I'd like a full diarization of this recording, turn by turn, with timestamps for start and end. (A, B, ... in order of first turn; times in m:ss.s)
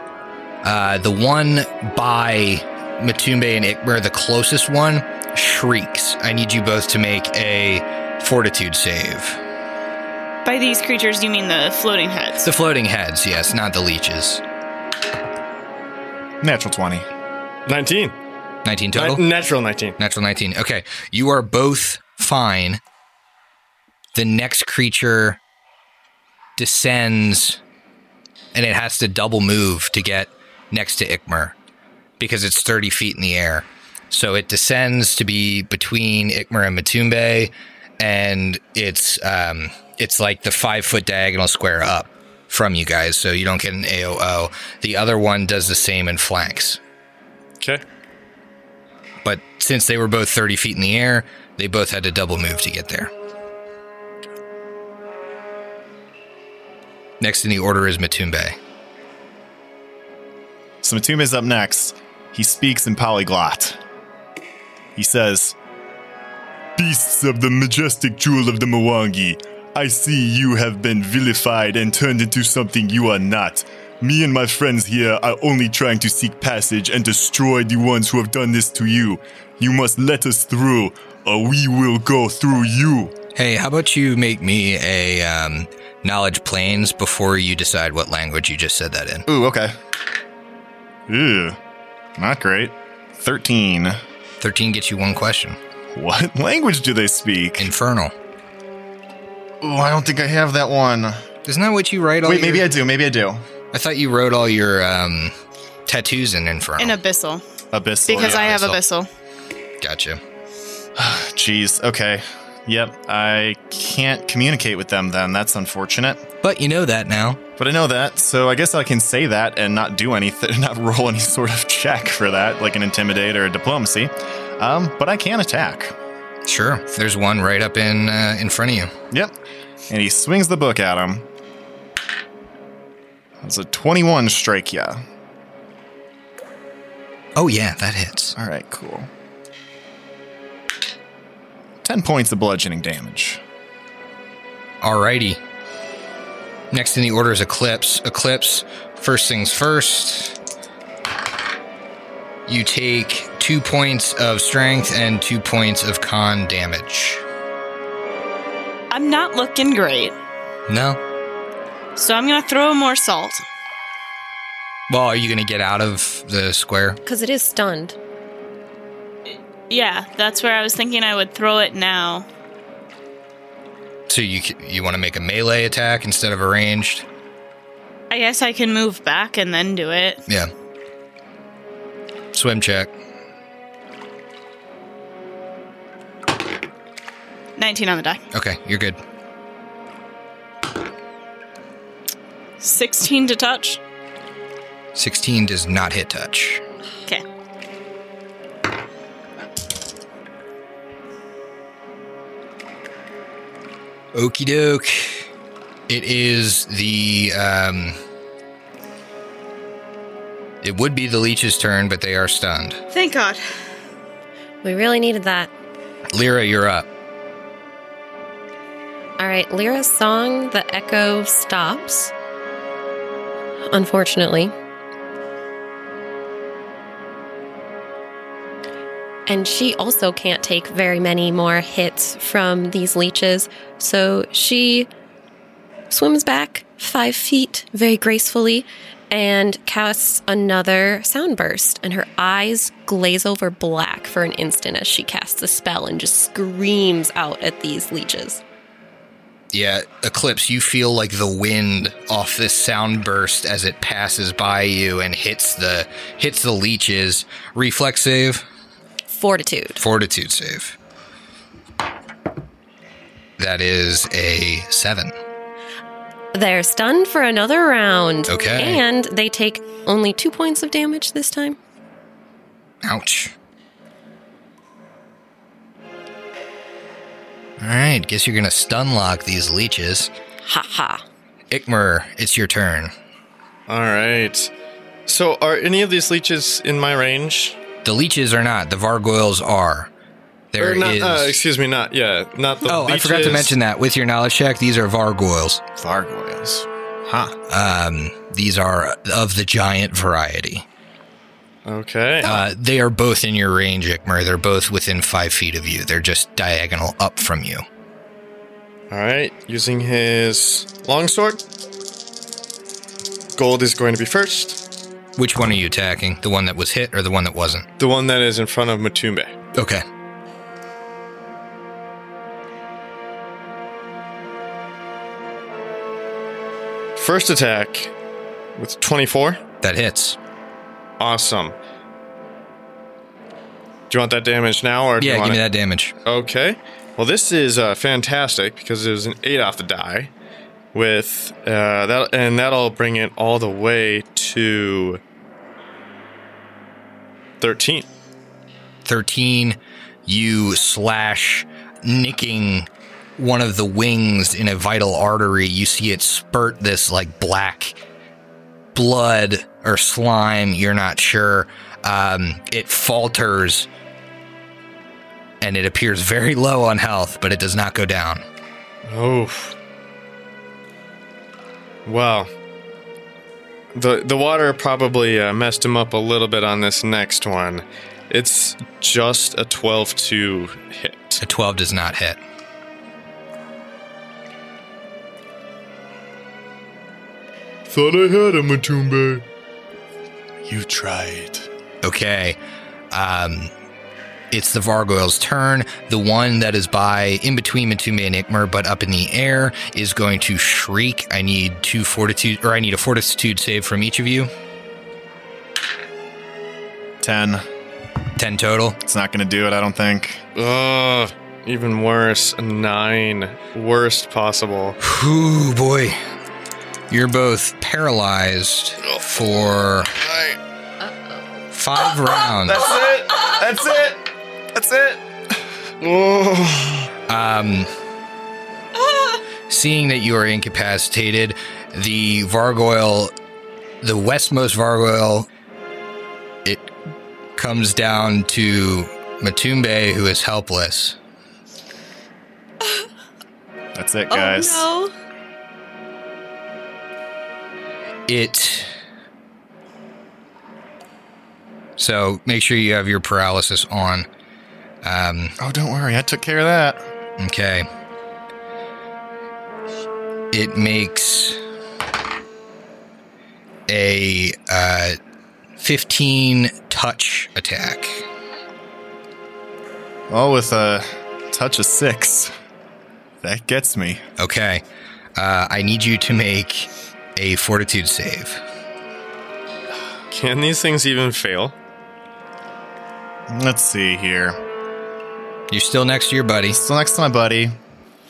0:00.6-0:09.4 A
0:10.4-0:12.4 B
0:12.4-0:14.4 A
0:16.4-0:17.1 C
0:17.6-0:18.2 D
0:18.6-0:19.2 A
0:18.9-0:20.0 D
0:20.0-0:22.8 A
0:24.1-0:25.4 A
0:26.6-0:27.6 A
0:28.5-0:31.5 A
0:32.2-0:46.8 A
0:49.2-0:53.1 A
0:57.2-0:58.6 A
1:00.8-1:03.8 C
1:05.0-1:05.5 C
1:06.8-1:23.1 C
1:23.3-1:29.3 A
1:29.3-1:29.8 C
1:31.1-1:31.6 C
1:32.2-1:34.0 C
1:34.4-1:35.6 A
1:35.9-1:37.7 C
1:37.6-1:38.1 A
1:39.6-1:41.2 C
1:41.4-1:42.7 A
1:42.2-1:43.4 C
1:43.7-1:45.3 A
1:45.9-1:47.0 A
1:46.8-1:47.4 B
1:47.7-1:48.7 C
1:48.0-1:49.1 B
1:48.2-1:48.8 A
1:49.8-1:50.2 A
1:51.0-1:56.2 C
1:56.4-1:57.4 A
1:57.6-2:05.9 C
2:06.4-2:08.9 A
2:09.9-2:11.2 C
2:13.4-2:15.0 C
2:17.4-2:18.4 A
2:18.4-2:19.1 C
2:21.8-2:23.4 C
2:24.8-2:25.4 A
2:26.7-2:30.4 A
2:32.5-2:37.2 A
2:38.9-2:40.1 B
2:40.7-2:41.0 A
2:42.0-2:43.4 B
2:44.9-2:47.0 A
2:47.0-2:48.0 E
2:49.3-2:52.2 B
2:54.1-2:57.0 A
2:58.1-3:00.2 B
3:02.3-3:02.9 A
3:07.6-3:08.2 B
3:08.3-3:09.0 A
3:12.6-3:13.8 B
3:14.9-3:16.6 A
3:24.1-3:25.3 A
3:25.9-3:28.0 A
3:30.6-3:32.8 A
3:32.9-3:33.4 B
3:34.6-3:35.5 E
3:36.1-3:36.9 A
3:39.2-3:42.1 E
3:43.7-3:44.5 E
3:49.3-3:54.9 E
3:55.9-4:08.4 E
4:09.5-4:18.4 A
4:19.1-4:19.8 E
4:19.8-4:20.8 A
4:23.4-4:25.1 A
4:26.3-4:31.6 E
4:28.3-4:28.8 A
4:32.8-4:33.3 A
4:37.6-4:40.1 A
4:40.4-4:41.0 E
4:41.5-4:42.9 A
4:43.7-4:44.5 D
4:45.1-4:47.6 D
4:47.8-4:49.9 A
4:50.5-4:51.4 A
4:50.6-4:53.5 D
4:52.6-4:55.6 A
4:55.8-4:57.4 C
4:57.5-5:00.6 A
5:01.6-5:02.4 D
5:02.2-5:07.6 A
5:08.9-5:11.4 D
5:13.3-5:14.6 D
5:15.2-5:17.6 A
5:17.8-5:19.3 D
5:19.5-5:19.8 A
5:27.0-5:27.9 D
5:28.6-5:29.4 D
5:29.6-5:30.2 A
5:31.0-5:31.6 D
5:33.9-5:35.4 D
5:35.0-5:35.9 A
5:36.0-5:40.1 D
5:40.7-5:45.0 D
5:47.4-5:47.9 D
5:48.8-5:57.8 A
5:58.7-6:03.7 A
6:05.4-6:08.2 A
6:08.8-6:09.5 D
6:11.8-6:12.3 D
6:13.7-6:21.2 D
6:21.2-6:22.2 A
6:27.7-6:29.2 D
6:30.4-6:31.5 C
6:31.8-6:32.4 A
6:32.9-6:33.5 A
6:34.3-6:44.3 A
6:47.0-6:47.4 C
6:48.2-6:48.8 A
6:48.8-6:50.2 C
6:50.3-6:54.8 D
6:54.8-6:56.0 A
6:56.9-6:59.9 A
7:00.0-7:00.4 D
7:01.5-7:02.7 A
7:02.5-7:03.2 D
7:02.5-7:05.0 C
7:05.8-7:06.9 D
7:07.1-7:07.7 A
7:09.5-7:13.1 A
7:13.8-7:15.3 A
7:16.4-7:16.7 A
7:17.4-7:21.0 A
7:23.7-7:24.7 C
7:24.1-7:24.9 E
7:28.1-7:28.7 A
7:31.8-7:34.1 A
7:34.8-7:35.4 A
7:35.4-7:36.8 C
7:37.2-7:37.7 A
7:40.3-7:41.4 A
7:43.7-7:45.0 A
7:45.6-7:48.0 A
7:50.1-7:52.3 C
7:53.2-7:54.0 C
7:54.2-7:54.6 A
7:55.2-7:58.4 A
8:00.1-8:01.5 D
8:03.3-8:04.4 C
8:05.5-8:06.6 A
8:06.5-8:07.5 C